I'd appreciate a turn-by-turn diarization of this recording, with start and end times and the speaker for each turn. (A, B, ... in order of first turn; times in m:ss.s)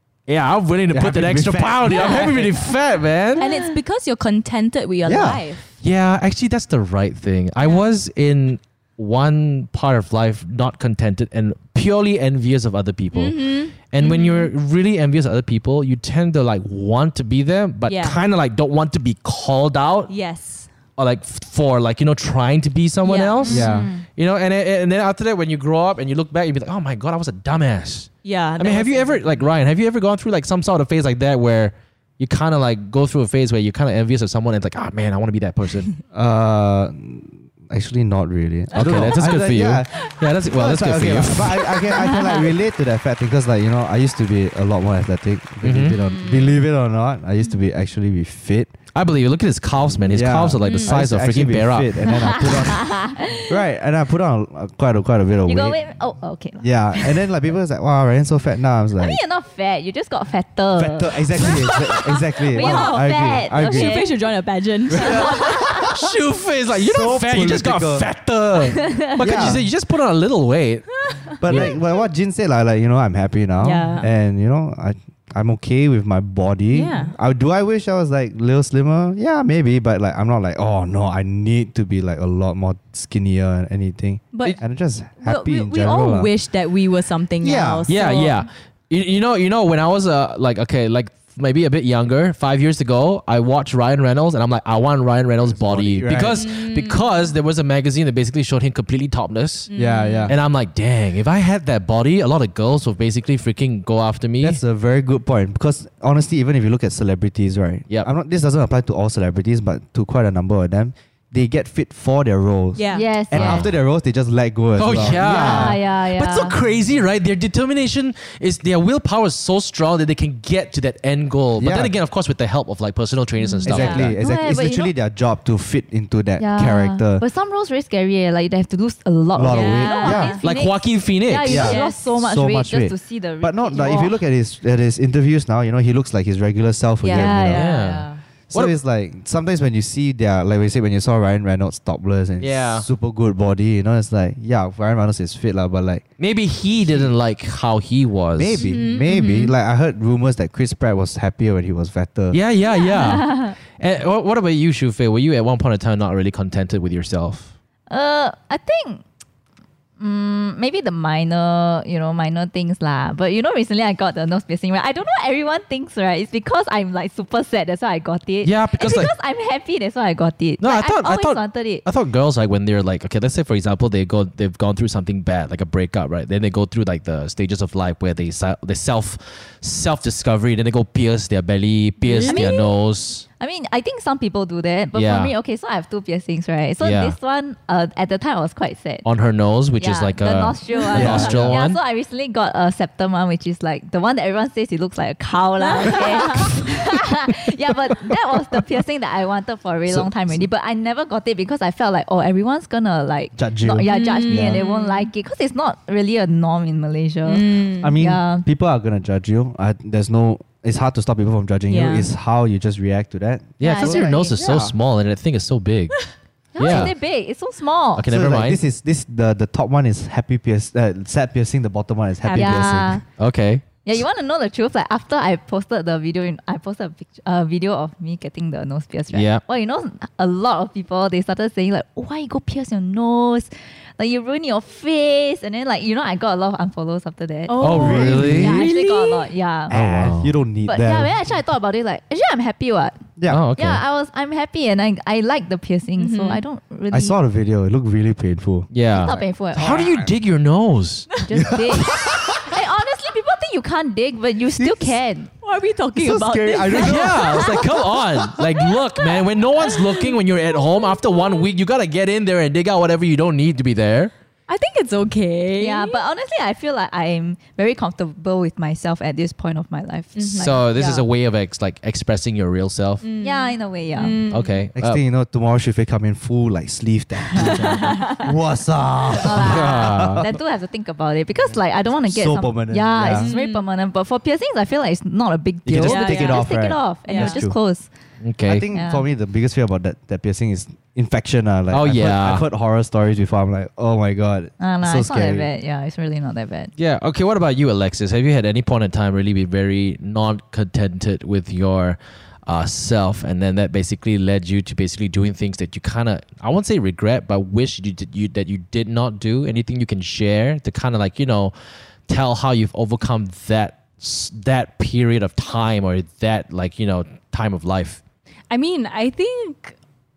0:00.3-0:03.5 A
0:00.9-0:02.6 B
0:01.9-0:02.4 C
0:03.4-0:05.6 C
0:05.0-0:05.4 B
0:05.8-0:20.1 A
0:13.1-0:14.5 C
0:17.9-0:18.2 C
0:20.1-0:20.7 C
0:21.0-0:35.9 A
0:23.0-0:23.8 C
0:23.4-0:23.9 B
0:23.5-0:24.0 D
0:28.2-0:29.4 C
0:36.1-0:48.7 B
0:38.7-0:39.4 C
0:38.8-0:41.8 A
0:41.8-0:42.4 C
0:42.0-0:42.4 D
0:45.6-0:46.0 A
0:45.9-0:46.6 C
0:48.9-0:51.9 A
0:50.1-0:55.8 B
0:50.6-0:51.0 C
0:52.0-0:53.6 D
0:55.5-0:57.3 D
0:56.6-0:59.2 B
0:59.0-1:04.3 D
1:00.8-1:04.0 B
1:02.5-1:05.7 C
1:04.9-1:05.9 B
1:05.0-1:05.9 D
1:05.5-1:10.9 A
1:06.8-1:08.1 B
1:08.8-1:09.5 D
1:09.1-1:09.6 B
1:11.1-1:11.8 C
1:11.4-1:26.3 B
1:11.4-1:11.8 A
1:13.6-1:14.1 C
1:16.7-1:17.2 C
1:24.3-1:24.6 C
1:25.2-1:28.4 C
1:27.4-1:27.9 B
1:27.9-1:39.7 A
1:35.4-1:36.4 B
1:36.3-1:37.2 C
1:39.7-1:40.3 C
1:39.7-1:40.4 B
1:40.3-1:44.6 A
1:44.4-1:55.8 B
1:52.8-1:53.1 C
1:52.9-1:53.7 D
1:53.3-1:53.7 A
1:54.8-2:04.2 A
1:54.9-1:56.6 D
2:01.6-2:01.9 B
2:03.4-2:04.9 D
2:03.7-2:07.2 B
2:03.7-2:04.1 C
2:06.4-2:14.2 D
2:09.4-2:10.4 B
2:09.5-2:10.5 C
2:10.4-2:11.7 A
2:11.4-2:17.6 B
2:11.5-2:12.1 C
2:17.0-2:18.2 C
2:17.0-2:18.1 D
2:17.5-2:18.8 A
2:18.5-2:26.0 B
2:22.4-2:22.9 A
2:26.2-2:28.6 A
2:28.4-2:32.4 B
2:28.6-2:29.5 C
2:32.3-2:37.5 A
2:33.0-2:33.5 D
2:37.9-2:39.0 D
2:40.0-2:51.8 D
2:48.4-2:49.1 A
2:50.6-3:03.3 A
3:02.1-3:02.7 C
3:02.2-3:02.6 D
3:03.4-3:09.1 D
3:04.9-3:05.3 A
3:06.8-3:07.2 A
3:09.0-3:11.8 A
3:09.8-3:28.5 D
3:10.8-3:11.2 C
3:10.9-3:11.6 B
3:15.6-3:16.6 C
3:19.9-3:20.5 B
3:23.4-3:24.6 B
3:23.8-3:25.1 C
3:27.3-3:28.0 C
3:27.8-3:34.7 B
3:31.7-3:32.1 C
3:33.6-3:36.0 A
3:33.6-3:34.3 D
3:36.6-3:36.9 A
3:36.6-3:38.1 D
3:36.6-3:36.9 B
3:38.0-3:38.6 A
3:38.1-3:43.0 B
3:42.2-3:43.0 C
3:42.3-3:43.0 D
3:43.2-3:43.7 A
3:43.8-3:59.8 D
3:49.1-3:49.4 A
3:57.5-3:59.3 C
3:57.6-3:58.6 A
3:57.7-3:58.6 B
3:59.7-4:01.1 B
3:59.7-4:00.3 A
4:00.6-4:07.2 D
4:03.2-4:03.4 B
4:03.3-4:03.8 A
4:06.0-4:06.4 C
4:06.9-4:08.7 B
4:08.7-4:11.2 A
4:09.0-4:09.9 D
4:09.5-4:10.1 B
4:11.2-4:15.3 D
4:11.4-4:12.4 B
4:14.6-4:15.0 B
4:15.4-4:18.5 C
4:16.0-4:17.6 B
4:16.8-4:24.1 A
4:19.6-4:20.2 C
4:24.5-4:26.0 C
4:25.6-4:30.6 D
4:30.2-4:31.0 C
4:30.4-4:33.0 A
4:33.0-4:34.6 C
4:33.2-4:34.2 D
4:34.3-4:35.0 A
4:34.8-4:40.2 B
4:37.3-4:38.1 D
4:37.4-4:38.3 C
4:39.2-4:47.9 D
4:39.4-4:40.2 A
4:42.0-4:43.3 B
4:43.1-4:43.7 C
4:45.7-4:47.6 B
4:45.8-4:46.5 C
4:47.0-4:47.5 C
4:48.2-4:48.6 A
4:48.5-4:55.5 B
4:48.7-4:49.1 D
4:51.7-4:52.4 A
4:54.6-4:56.7 D
4:56.8-5:11.5 A
5:12.1-5:18.0 A
5:18.5-5:19.8 C